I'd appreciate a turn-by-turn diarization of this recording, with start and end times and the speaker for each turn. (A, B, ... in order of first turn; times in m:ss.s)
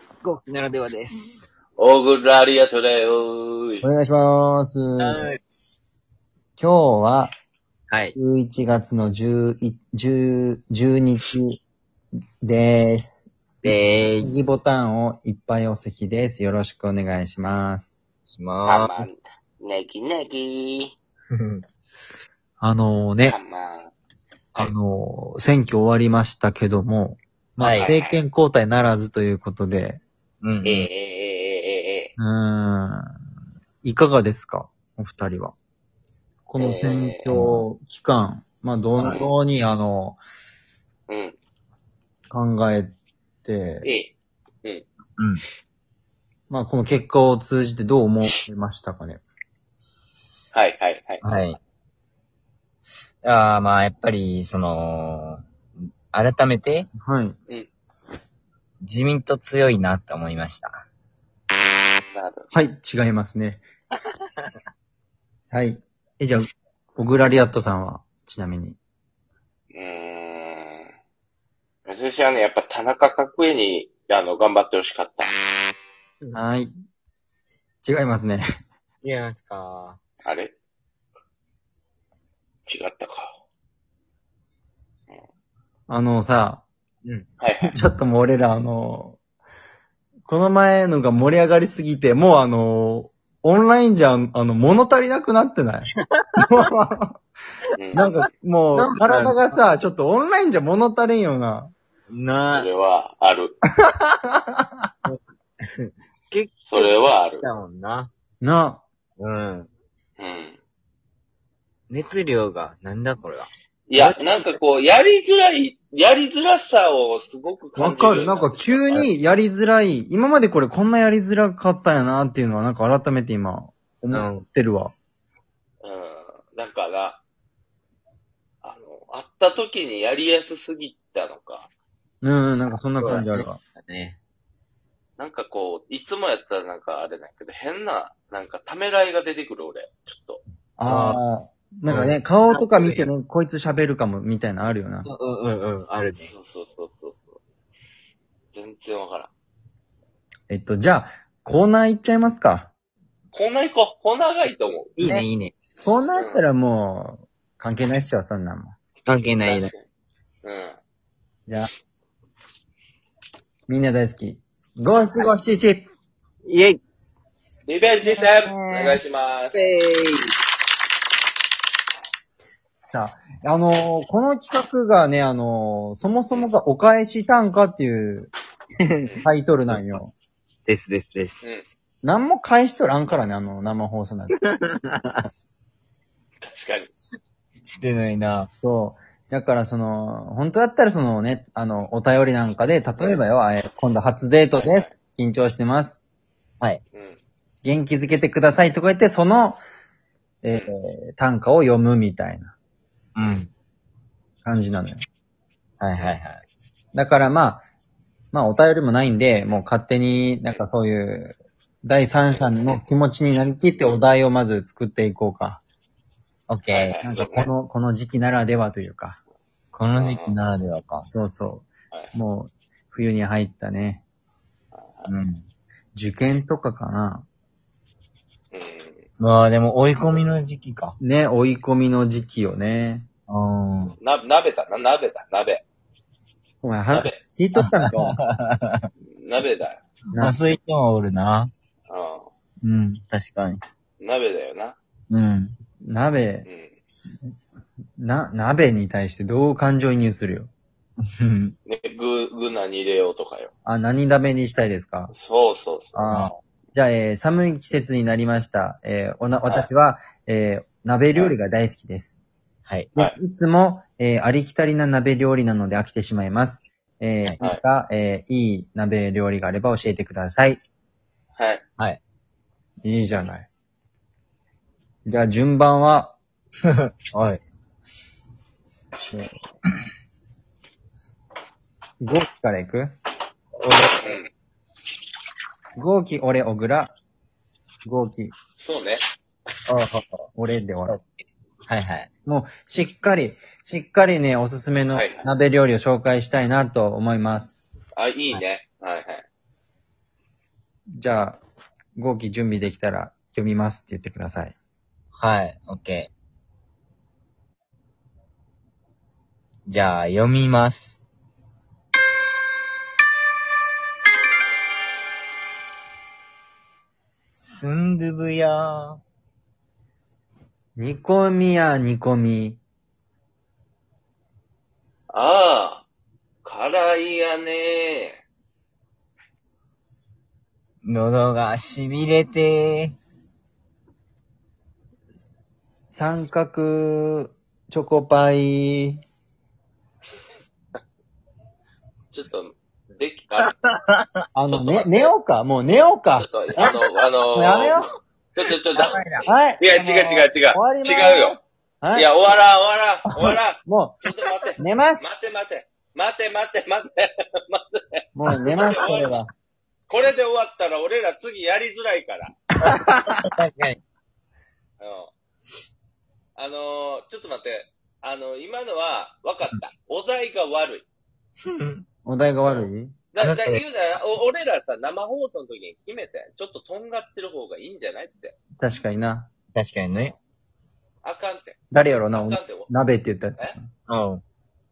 0:00.2-0:01.4 A
0:01.8-0:03.8 B
0:03.8-0:05.4 C
0:05.0-0:05.4 A
0:06.6-0:07.4 C
0:07.9-0:08.2 A
0:08.2-0:11.6 C
0:12.4-0:17.9 C
0:13.6-0:14.3 A
0:18.3-0:19.1 A
0:18.6-0:20.9 B
0:21.4-0:21.6 A
0:22.6-0:23.4 C
0:23.2-0:23.9 B
0:24.6-0:30.0 C
0:27.6-0:27.9 A
0:27.8-0:28.2 B
0:30.4-0:30.9 A
0:30.6-0:32.1 B
0:32.2-0:33.1 C
0:33.8-0:35.6 C
0:36.5-0:40.2 C
0:36.6-0:37.3 B
0:37.3-0:37.6 A
0:39.0-0:39.3 B
0:41.1-0:41.4 B
0:42.3-0:43.9 C
0:43.8-0:44.1 B
0:45.2-0:45.4 A
0:46.5-0:49.2 C
0:50.5-0:51.2 B
0:51.2-0:51.6 A
0:53.2-0:55.4 A
0:56.1-0:56.9 A
0:57.0-0:57.4 C
0:58.8-1:00.8 A
1:02.1-1:02.5 B
1:02.5-1:03.6 C
1:05.5-1:08.8 C
1:09.7-1:10.9 B
1:11.9-1:15.3 B
1:16.3-1:16.7 C
1:17.8-1:18.4 C
1:19.0-1:20.0 A
1:20.2-1:20.5 B
1:22.7-1:23.3 B
1:25.9-1:26.6 C
1:27.0-1:27.3 A
1:27.4-1:27.7 B
1:27.7-1:29.2 C
1:30.3-1:37.2 C
1:36.1-1:36.7 A
1:37.8-1:38.2 B
1:37.9-1:41.7 C
1:38.7-1:39.6 A
1:42.1-1:42.7 A
1:42.5-1:43.6 B
1:44.0-1:44.6 C
1:45.8-1:48.1 A
1:46.7-1:47.5 B
1:48.4-1:48.8 C
1:49.2-1:49.7 A
1:50.2-1:50.6 B
1:51.9-1:54.6 A
1:53.9-1:59.1 B
1:57.8-2:04.9 C
2:04.1-2:04.4 A
2:05.8-2:07.2 B
2:08.6-2:11.7 B
2:12.2-2:13.6 C
2:13.0-2:14.2 A
2:15.2-2:20.4 B
2:20.8-2:25.1 C
2:20.8-2:21.2 A
2:21.9-2:23.1 A
2:25.1-2:26.3 A
2:26.3-2:27.4 B
2:28.5-2:29.3 B
2:30.5-2:32.7 C
2:33.3-2:34.9 B
2:35.0-2:35.6 A
2:35.0-2:35.3 C
2:35.8-2:38.8 C
2:36.1-2:36.4 B
2:39.1-2:39.7 A
2:39.4-2:39.8 B
2:40.4-2:40.8 B
2:43.7-2:45.9 C
2:46.4-2:46.8 A
2:47.7-2:49.6 B
2:48.1-2:49.0 A
2:49.5-2:50.3 A
2:52.8-2:58.3 C
2:58.8-3:00.0 A
2:59.2-3:00.1 C
3:00.7-3:01.4 A
3:02.0-3:04.4 C
3:04.6-3:05.3 A
3:06.5-3:06.9 B
3:07.6-3:08.5 A
3:08.5-3:16.0 C
3:14.5-3:14.9 B
3:16.9-3:17.2 B
3:17.6-3:19.6 C
3:20.4-3:22.6 C
3:23.2-3:23.5 A
3:24.4-3:25.0 C
3:25.8-3:26.4 A
3:26.9-3:27.6 C
3:28.3-3:35.6 C
3:32.3-3:32.8 B
3:36.5-3:37.0 A
3:36.7-3:37.5 B
3:37.0-3:39.2 C
3:39.7-3:41.1 A
3:40.0-3:40.4 B
3:41.1-3:44.0 C
3:44.7-3:45.1 B
3:45.1-3:45.5 A
3:46.0-3:47.3 C
3:48.5-3:49.0 B
3:49.2-3:51.0 A
3:51.0-3:53.1 C
3:53.3-3:54.0 A
3:54.0-3:55.6 B
3:56.6-3:58.2 C
3:56.9-3:57.2 B
3:57.6-3:58.8 A
3:59.1-3:59.8 B
4:00.1-4:00.4 C
4:00.2-4:01.5 A
4:01.9-4:02.3 B
4:02.6-4:03.6 A
4:04.0-4:04.8 B
4:05.1-4:05.6 A
4:05.8-4:06.5 C
4:06.5-4:06.8 B
4:08.0-4:10.5 C
4:11.0-4:11.6 A
4:11.7-4:13.5 B
4:13.7-4:15.1 C
4:15.1-4:16.2 B
4:15.9-4:22.2 C
4:23.0-4:30.6 C
4:31.4-4:31.6 B
4:32.8-4:33.5 C
4:35.0-4:36.2 C
4:37.1-4:37.4 A
4:42.0-4:43.0 C
4:43.6-4:44.2 A
4:44.0-4:44.3 B
4:45.8-4:47.0 C
4:47.8-4:48.4 C
4:48.6-4:49.0 B
4:49.7-4:50.3 A
4:50.4-4:51.0 C
4:50.9-4:52.1 A
4:52.2-4:57.6 C
4:54.9-4:55.3 B
4:58.0-4:59.2 B
5:00.9-5:01.4 C
5:02.0-5:04.6 C
5:05.2-5:06.1 A
5:09.7-5:11.0 A
5:17.4-5:19.0 A
5:20.8-5:22.6 C
5:25.1-5:25.9 B
5:26.4-5:28.2 B
5:30.8-5:33.0 A
5:35.9-5:39.0 C
5:42.1-5:43.6 B
5:44.3-5:46.6 C
5:44.5-5:45.1 B
5:46.2-5:47.8 B
5:47.4-5:47.9 C
5:48.4-5:51.4 B
5:48.8-5:49.3 A
5:49.3-5:52.1 C
5:51.9-5:59.2 B
5:53.2-5:54.1 C
5:54.6-5:55.1 C
5:58.2-5:59.3 C
5:59.9-6:02.4 B
6:02.6-6:03.8 A
6:02.8-6:03.2 C
6:04.8-6:05.1 B
6:06.4-6:10.9 B
6:11.5-6:11.8 A
6:12.0-6:13.0 C
6:12.4-6:18.4 B
6:13.2-6:13.6 A
6:18.6-6:19.3 C
6:19.5-6:20.2 A
6:21.0-6:21.6 B
6:21.7-6:23.7 C
6:22.1-6:22.7 B
6:23.9-6:24.2 A